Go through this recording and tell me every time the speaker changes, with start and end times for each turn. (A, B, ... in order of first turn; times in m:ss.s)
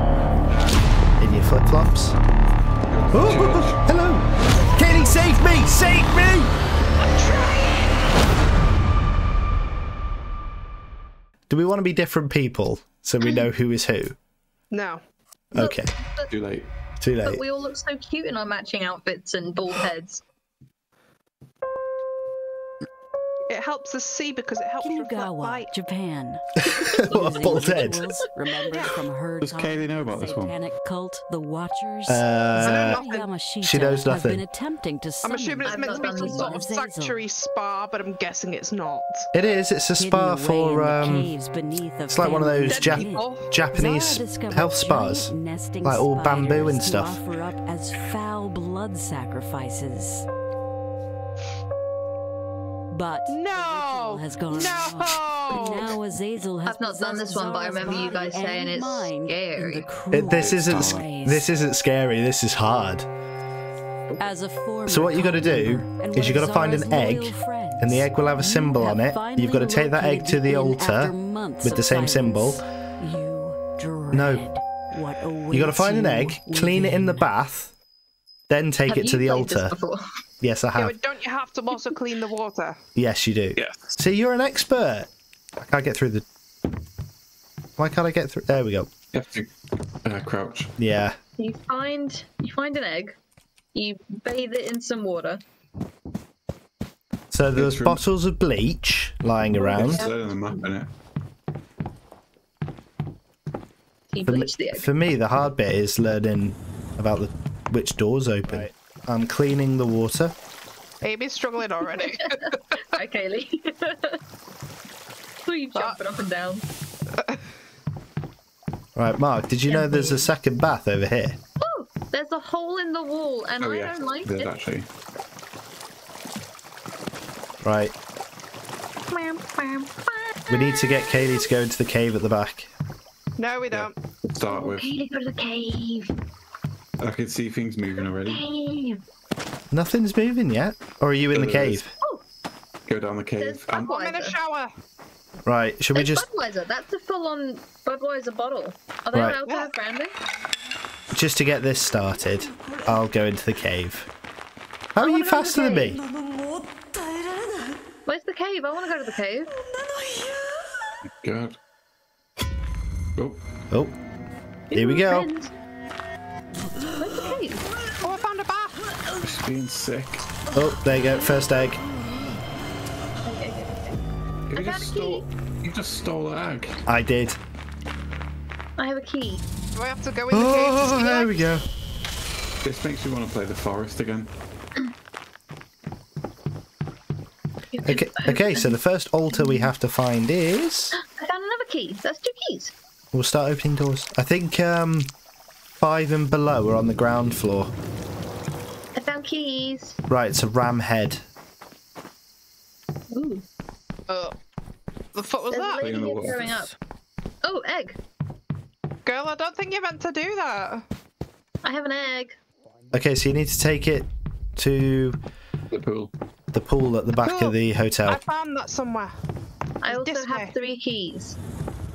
0:00.4-0:00.8 A
0:01.2-0:02.2 B
0:02.9-0:03.8 A
0:03.1-0:06.5 B
0:07.0-0:07.9 C
0:11.5-0:14.2 B
0:14.7-0:15.0 C
0:15.5-0:15.9 B
0:15.6-0:16.3 D
0:16.3-0:16.7 A
0:17.0-0:17.4 B
0:17.2-0:20.2 D
0:23.5-0:25.7 C
0:24.8-0:26.5 E
0:27.1-0:28.0 B
0:27.1-0:37.2 E
0:28.7-0:29.0 C
0:29.4-0:30.6 A
0:32.1-0:33.0 B
0:32.6-0:33.3 C
0:33.6-0:34.4 B
0:35.2-0:39.3 C
0:35.6-0:36.6 D
0:39.3-0:41.3 B
0:40.0-0:50.3 E
0:42.1-0:45.3 B
0:42.7-0:43.5 C
0:45.8-0:47.2 B
0:52.9-1:01.5 E
0:53.3-0:56.0 C
0:56.7-0:59.9 D
1:00.1-1:03.1 B
1:00.3-1:01.0 A
1:04.2-1:17.3 E
1:04.9-1:12.6 B
1:14.1-1:14.5 B
1:15.5-1:17.7 B
1:18.5-1:19.8 B
1:18.9-1:20.0 D
1:20.4-1:21.0 B
1:20.8-1:22.8 C
1:23.0-1:25.1 B
1:23.6-1:24.0 A
1:25.7-1:26.2 B
1:27.8-1:28.9 B
1:29.1-1:29.5 A
1:30.0-1:30.7 A
1:30.8-1:31.2 B
1:31.4-1:33.2 D
1:33.7-1:35.4 D
1:37.3-1:40.1 B
1:37.5-1:38.0 A
1:39.5-1:40.5 D
1:39.7-1:40.9 A
1:44.1-1:44.9 D
1:44.3-1:50.3 B
1:51.0-1:52.8 C
1:52.9-1:54.2 D
1:55.5-1:56.6 D
1:59.0-2:01.4 B
1:59.7-2:00.2 D
2:01.6-2:04.5 D
2:03.6-2:04.9 A
2:07.6-2:07.9 B
2:09.1-2:09.8 C
2:10.5-2:12.7 B
2:13.4-2:14.0 C
2:13.7-2:14.9 A
2:14.5-2:16.1 D
2:17.0-2:18.4 A
2:18.2-2:19.0 D
2:19.7-2:21.9 B
2:21.3-2:21.8 A
2:22.9-2:23.9 A
2:23.4-2:24.4 D
2:23.8-2:24.7 C
2:25.5-2:26.2 B
2:25.9-2:30.2 D
2:29.1-2:29.4 B
2:31.1-2:34.1 B
2:34.9-2:36.0 B
2:35.0-2:36.0 D
2:38.1-2:39.5 D
2:41.2-2:41.6 A
2:44.7-2:45.5 D
2:44.7-2:45.3 B
2:47.0-2:47.7 D
2:48.0-2:48.8 C
2:49.2-2:50.3 A
2:50.5-2:51.8 B
2:53.2-2:54.0 D
2:54.5-2:56.8 A
2:54.5-2:55.3 D
2:56.9-2:57.4 B
2:58.8-2:59.4 D
2:59.8-3:01.5 C
3:00.3-3:01.6 B
3:02.6-3:04.3 A
3:07.7-3:08.8 D
3:07.8-3:11.0 B
3:09.3-3:09.7 D
3:11.0-3:12.7 D
3:13.1-3:15.1 B
3:15.8-3:17.7 B
3:19.0-3:20.0 D
3:20.1-3:21.2 B
3:23.1-3:23.4 D
3:24.1-3:24.4 C
3:25.1-3:25.9 C
3:25.5-3:26.8 D
3:25.8-3:26.7 A
3:27.4-3:28.0 D
3:29.0-3:30.8 C
3:31.6-3:32.4 D
3:32.9-3:35.2 B
3:35.7-3:36.1 A
3:36.5-3:38.2 B
3:37.2-3:39.1 C
3:39.8-3:41.4 D
3:39.8-3:40.5 C